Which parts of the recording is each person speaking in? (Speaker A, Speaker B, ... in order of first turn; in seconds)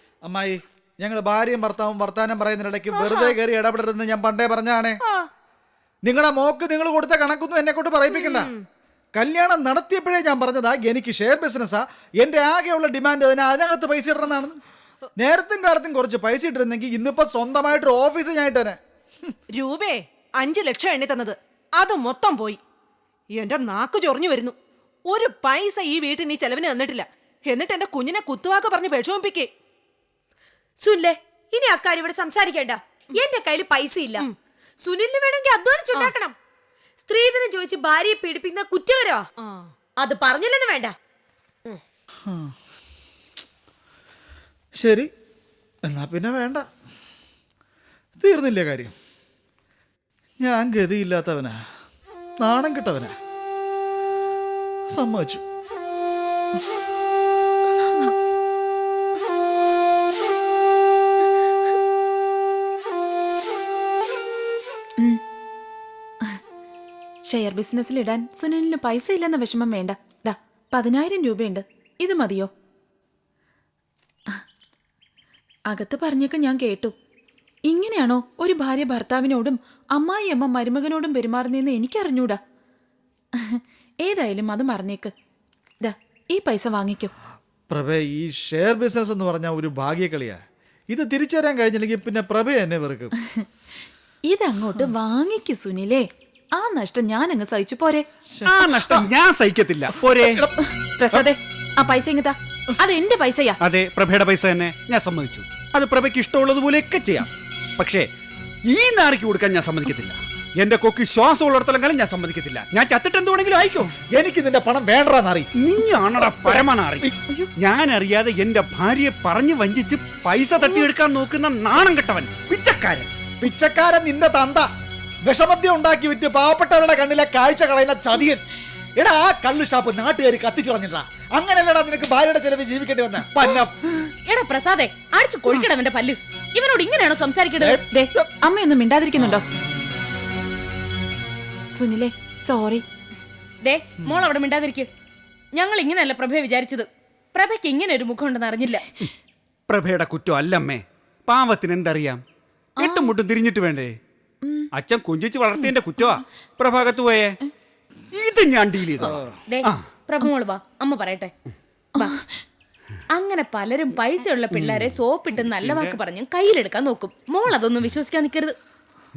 Speaker A: 0.2-5.0, 6.0-8.5, 9.2-14.6, 15.2-19.3, 42.3-42.5, 44.8-45.1, 45.9-46.6, 48.2-48.9, 50.4-51.6, 52.4-53.1, 54.9-55.4, 87.7-93.1, 98.3-99.0, 114.1-115.5, 116.2-117.1, 123.4-124.7, 125.2-128.4, 129.0-133.8
Speaker B: 2.9-3.4, 5.0-5.3, 8.1-8.7, 19.5-22.6, 23.3-24.6, 25.1-29.5, 39.4-39.7
Speaker C: 30.8-34.2, 34.8-36.3, 37.0-39.2, 40.0-40.9
Speaker D: 67.3-72.5, 75.7-77.0, 77.7-82.4, 83.4-85.1, 85.8-87.1, 94.3-98.1, 100.7-103.6, 137.8-139.4, 141.7-142.8, 152.8-153.2, 154.4-154.7, 162.0-162.3
Speaker E: 98.5-100.5, 103.6-108.1, 108.7-113.9, 115.6-123.1, 149.7-152.2, 152.8-153.9, 154.7-157.4, 158.1-159.9, 164.6-166.0
Speaker F: 134.3-137.8, 143.6-144.9, 145.5-148.8, 159.5-161.3, 163.1-168.6